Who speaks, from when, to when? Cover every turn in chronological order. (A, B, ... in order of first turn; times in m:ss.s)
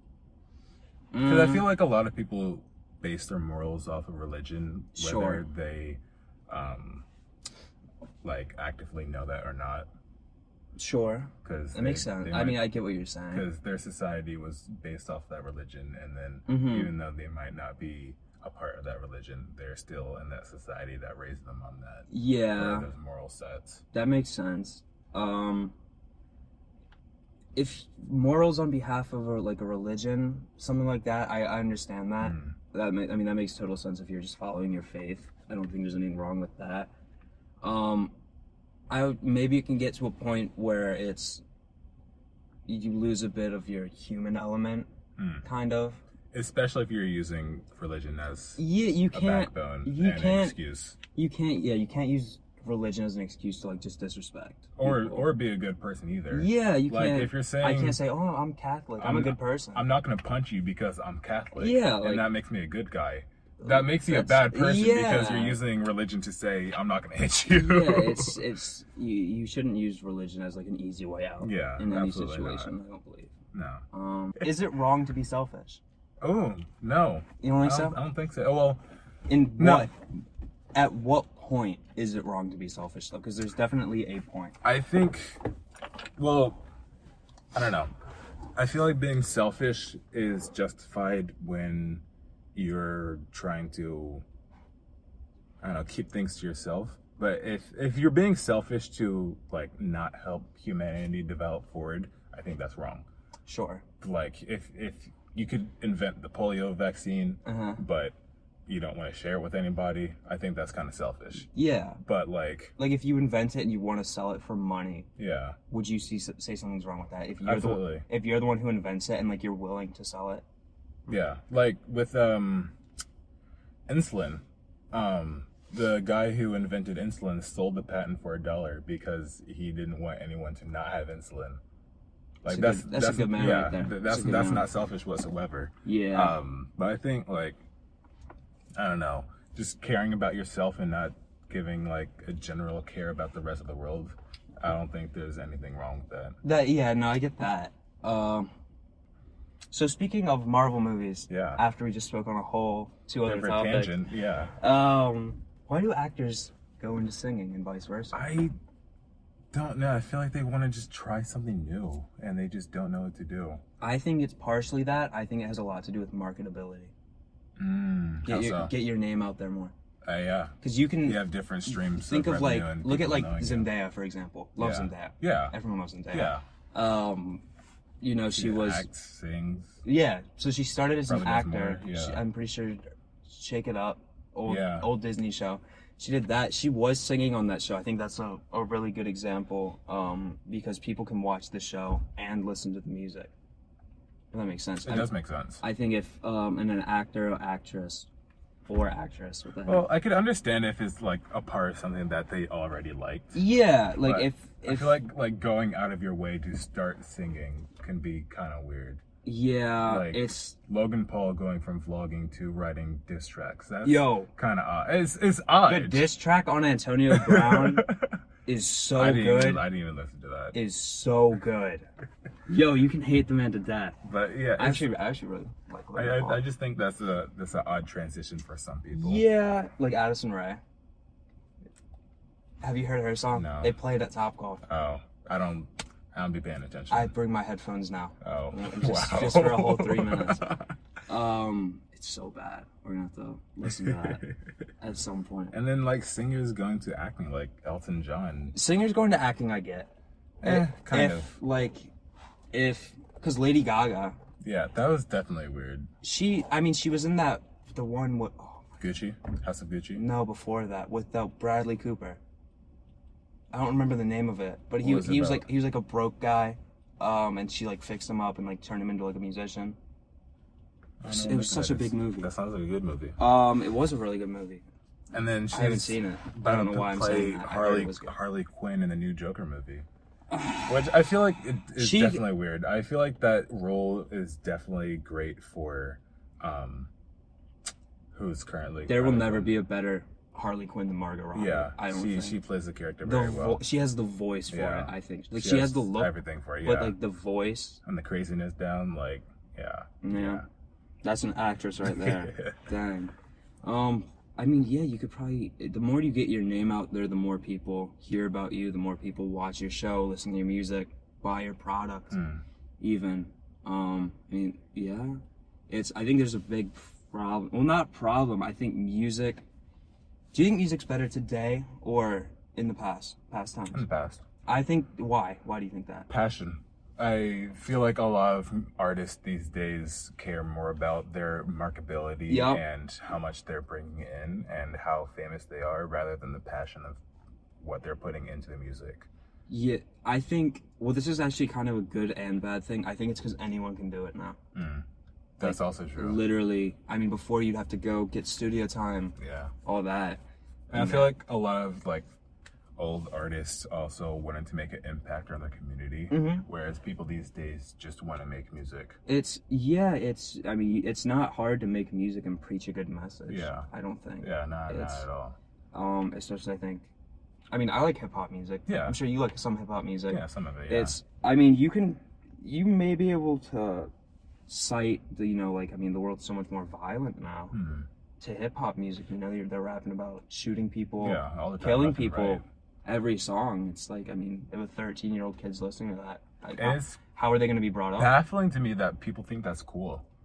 0:01.1-0:01.7 A
0:01.2-0:07.0 B
0:05.0-0:05.4 A
0:08.2-0:09.9 B
0:10.8-0:13.5 A
0:11.4-0:12.7 B
0:13.3-0:23.8 B
0:16.5-0:16.9 A
0:22.1-0:22.9 A
0:23.9-0:25.7 A
0:27.6-0:36.9 A
0:32.2-0:32.6 B
0:37.6-0:38.1 A
0:38.9-0:41.4 A
0:42.7-0:44.9 A
0:45.2-0:45.5 B
0:45.4-0:46.0 A
0:46.3-0:51.0 B
0:48.6-0:50.6 A
0:51.2-0:55.3 A
0:54.8-0:58.0 B
0:56.3-0:59.8 A
0:59.0-1:08.4 B
1:01.6-1:02.3 A
1:03.6-1:05.6 A
1:07.5-1:13.3 A
1:11.4-1:12.7 B
1:13.5-1:13.8 B
1:13.9-1:15.8 A
1:16.2-1:18.8 B
1:17.4-1:18.0 A
1:19.3-1:20.0 A
1:19.6-1:19.9 B
1:20.7-1:24.6 A
1:24.6-1:25.4 B
1:26.2-1:26.6 B
1:27.5-1:27.9 B
1:28.6-1:32.0 B
1:32.6-1:34.2 B
1:35.6-1:43.1 B
1:43.5-1:43.8 A
1:44.0-1:48.2 B
1:47.4-1:47.8 A
1:48.7-1:51.5 B
1:51.5-1:52.0 A
1:52.0-1:52.8 B
1:52.8-1:55.1 A
1:55.2-1:55.6 B
1:55.7-2:00.4 A
1:57.4-1:58.0 B
2:01.1-2:02.8 B
2:03.9-2:11.6 B
2:12.4-2:17.6 B
2:12.5-2:14.7 A
2:15.8-2:16.4 A
2:18.8-2:26.4 B
2:26.4-2:28.5 A
2:29.7-2:34.0 A
2:31.3-2:31.6 B
2:33.2-2:34.5 B
2:34.6-2:38.2 A
2:38.1-2:38.5 B
2:39.5-2:43.6 B
2:43.8-2:46.9 A
2:47.6-2:48.7 B
2:48.2-2:49.7 A
2:50.0-2:53.7 B
2:50.6-2:57.4 A
2:54.6-2:55.6 B
2:56.1-2:56.4 B
2:58.0-2:58.9 A
2:58.3-2:59.8 B
2:59.8-3:13.3 A
3:01.1-3:02.2 B
3:04.4-3:04.9 B
3:14.3-3:15.1 A
3:14.8-3:15.6 B
3:15.6-3:18.1 A
3:18.7-3:19.9 A
3:19.6-3:23.4 B
3:23.3-3:25.0 A
3:24.0-3:29.0 B
3:29.2-3:30.6 A
3:29.8-3:36.1 B
3:33.8-3:34.3 A
3:35.6-3:37.9 A
3:37.1-3:38.2 B
3:38.5-3:39.6 A
3:39.0-3:40.6 B
3:40.5-3:41.9 A
3:42.5-3:44.0 A
3:44.0-3:44.9 B
3:44.6-3:46.4 A
3:46.0-3:49.3 B
3:48.9-3:50.6 A
3:52.6-3:54.6 A
3:53.3-3:53.8 B
3:54.6-3:57.1 B
3:56.9-4:00.5 A
3:58.2-4:00.7 B
4:01.1-4:04.2 A
4:03.6-4:04.3 B
4:04.8-4:05.6 A
4:05.5-4:08.6 B
4:08.5-4:09.9 A
4:10.4-4:11.3 B
4:10.4-4:11.9 A
4:12.5-4:14.2 A
4:14.4-4:15.9 B
4:16.0-4:18.7 A
4:18.8-4:20.0 B
4:20.0-4:22.2 A
4:23.5-4:29.8 A
4:24.8-4:25.5 B
4:31.0-4:33.2 B
4:31.1-4:32.3 A
4:33.2-4:34.6 A
4:35.1-4:39.9 B
4:35.5-4:38.2 A
4:40.3-4:40.6 A
4:40.6-4:46.9 B
4:41.8-4:42.2 A
4:48.1-4:49.5 B
4:48.9-4:52.4 A
4:51.3-4:53.6 B
4:53.0-4:57.8 A
4:54.5-4:57.0 B
4:57.8-5:00.4 B
5:00.0-5:00.4 A
5:01.0-5:12.2 A
5:01.8-5:02.7 B
5:12.1-5:12.4 B
5:12.8-5:19.4 A
5:20.3-5:23.8 A
5:23.7-5:24.2 B
5:24.5-5:26.1 A
5:26.1-5:37.0 B
5:32.3-5:32.6 A
5:37.6-5:39.1 B
5:39.5-5:44.4 A
5:44.5-5:44.9 B
5:45.4-5:46.2 B
5:45.4-5:50.2 A
5:49.2-5:49.5 B
5:50.7-5:52.1 B
5:50.7-5:51.1 A
5:52.8-5:59.0 B
5:56.1-5:56.4 A
5:59.1-6:05.1 A
6:03.3-6:03.7 B
6:04.2-6:05.4 B
6:05.7-6:06.9 A
6:07.5-6:13.9 A
6:08.7-6:09.0 B
6:10.1-6:11.0 B
6:14.5-6:17.6 A
6:17.5-6:17.9 B
6:18.2-6:28.1 A
6:21.0-6:22.4 B
6:26.6-6:27.0 B
6:28.0-6:30.0 B